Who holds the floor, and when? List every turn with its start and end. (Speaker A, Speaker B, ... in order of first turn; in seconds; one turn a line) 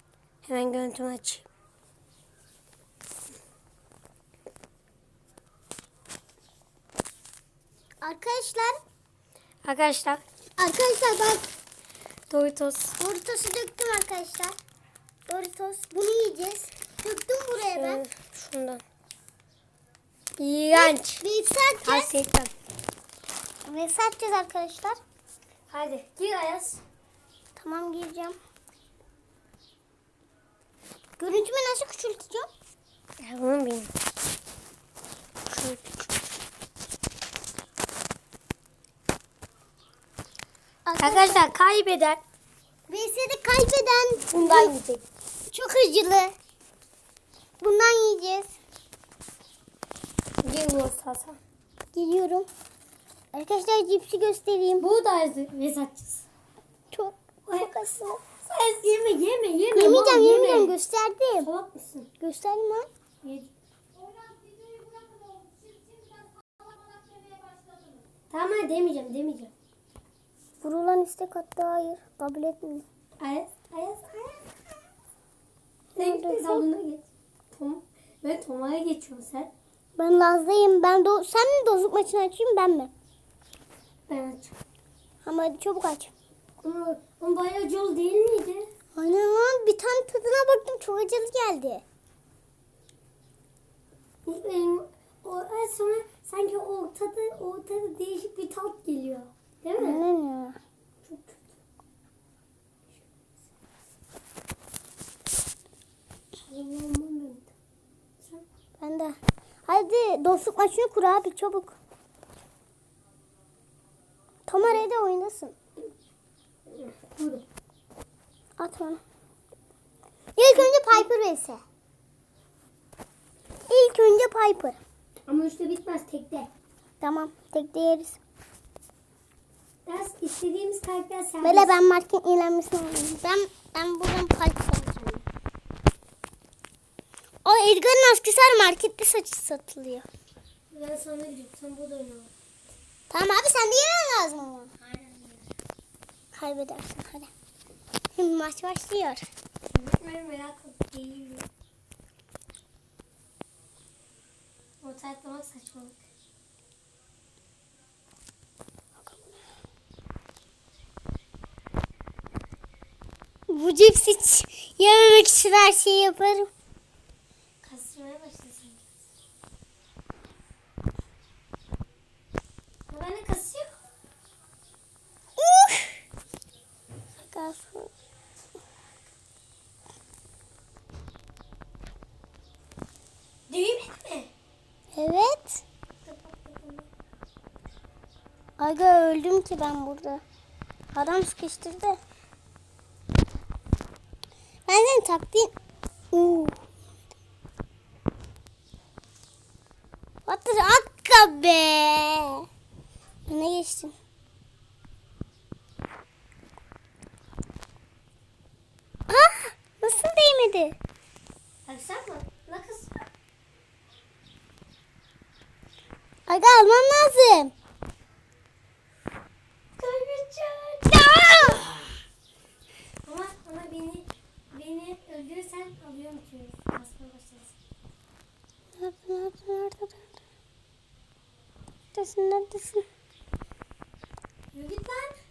Speaker A: 0.4-1.4
Speaker B: 8.0-8.8
Speaker A: 9.6-10.2
Speaker B: 10.6-11.5
Speaker A: 12.3-12.9
Speaker B: 13.0-14.5
Speaker B: 15.3-18.0
Speaker A: 17.7-18.8
Speaker A: 20.4-21.2
Speaker B: 20.7-22.1
Speaker A: 21.8-22.5
Speaker B: 23.6-25.0
Speaker A: 25.7-26.8
Speaker B: 27.6-28.4
Speaker B: 31.2-32.5
Speaker A: 33.2-33.9
Speaker A: 35.5-35.9
Speaker B: 40.9-41.5
Speaker A: 41.0-42.2
Speaker B: 42.9-44.7
Speaker A: 44.2-45.0
Speaker B: 45.5-46.3
Speaker B: 47.6-48.5
Speaker A: 50.4-51.4
Speaker B: 51.9-52.5
Speaker B: 53.3-54.8
Speaker A: 54.8-56.2
Speaker B: 56.9-58.2
Speaker A: 57.5-57.7
Speaker A: 58.4-60.7
Speaker B: 59.7-61.5
Speaker A: 61.4-62.1
Speaker B: 62.2-62.9
Speaker A: 63.2-63.5
Speaker A: 68.3-69.5
Speaker B: 70.6-72.8
Speaker A: 73.2-74.7
Speaker B: 76.0-76.6
Speaker A: 76.0-79.5
Speaker B: 80.0-82.9
Speaker A: 84.1-84.5
Speaker B: 85.2-86.1
Speaker A: 86.6-88.7
Speaker B: 88.9-91.8
Speaker A: 94.2-100.0
Speaker B: 99.8-100.6
Speaker A: 101.0-101.5
Speaker A: 106.5-107.5
Speaker B: 108.8-111.8
Speaker B: 114.5-115.5
Speaker A: 114.6-114.8
Speaker A: 116.7-117.4
Speaker B: 118.6-119.0
Speaker B: 120.3-121.6
Speaker A: 120.5-121.1
Speaker B: 123.7-124.8
Speaker A: 125.3-126.5
Speaker B: 127.0-128.2
Speaker A: 129.8-131.7
Speaker B: 131.4-135.0
Speaker B: 137.4-140.1
Speaker A: 140.7-142.3
Speaker B: 143.1-144.7
Speaker A: 144.8-145.5
Speaker B: 146.3-147.3
Speaker B: 148.1-149.2
Speaker A: 149.7-151.4
Speaker A: 154.8-156.0
Speaker B: 163.5-166.5
Speaker A: 167.6-168.9
Speaker A: 172.9-173.8
Speaker B: 175.4-176.0
Speaker B: 177.2-177.9
Speaker A: 183.5-184.3
Speaker B: 184.9-185.6
Speaker A: 186.0-186.9
Speaker B: 188.6-190.2
Speaker B: 190.9-192.0
Speaker B: 194.7-195.5
Speaker B: 196.1-196.6
Speaker B: 200.2-202.4
Speaker B: 203.3-203.9
Speaker B: 209.1-210.8
Speaker A: 211.7-213.1
Speaker B: 216.3-217.5
Speaker A: 219.8-221.7
Speaker B: 220.9-221.6
Speaker A: 223.0-227.6
Speaker B: 228.8-230.1
Speaker B: 231.9-232.8
Speaker A: 234.5-235.1